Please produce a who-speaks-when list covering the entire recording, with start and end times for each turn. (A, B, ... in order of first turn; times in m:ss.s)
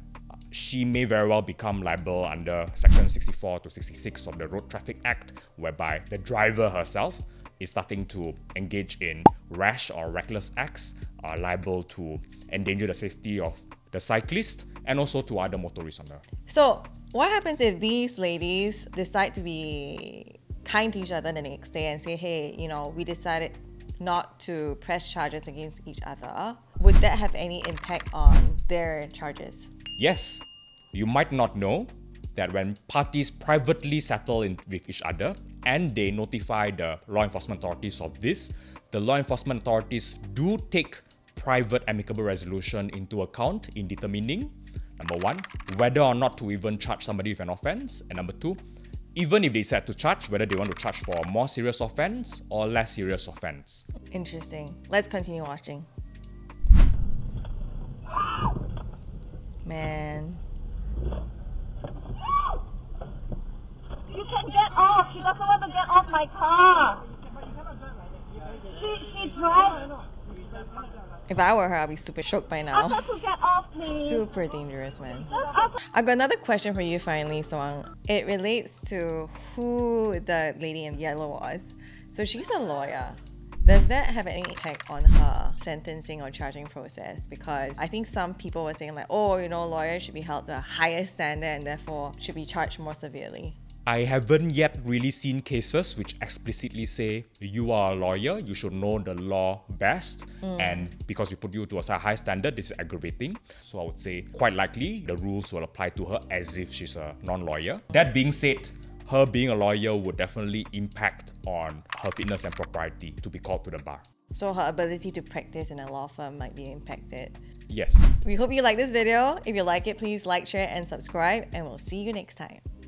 0:00.5-0:16.2 A
0:16.5-0:29.7 B
0:30.0-0:48.6 A
0:49.1-0:53.8 A
0:54.1-0:55.9 B
0:59.6-1:00.4 B
1:04.1-1:07.0 C
1:09.0-1:09.8 C
1:11.3-1:13.2 B
1:13.8-1:33.6 B
1:33.9-1:54.0 A
1:54.3-1:57.3 B
1:57.7-1:58.1 A
1:58.2-2:02.6 B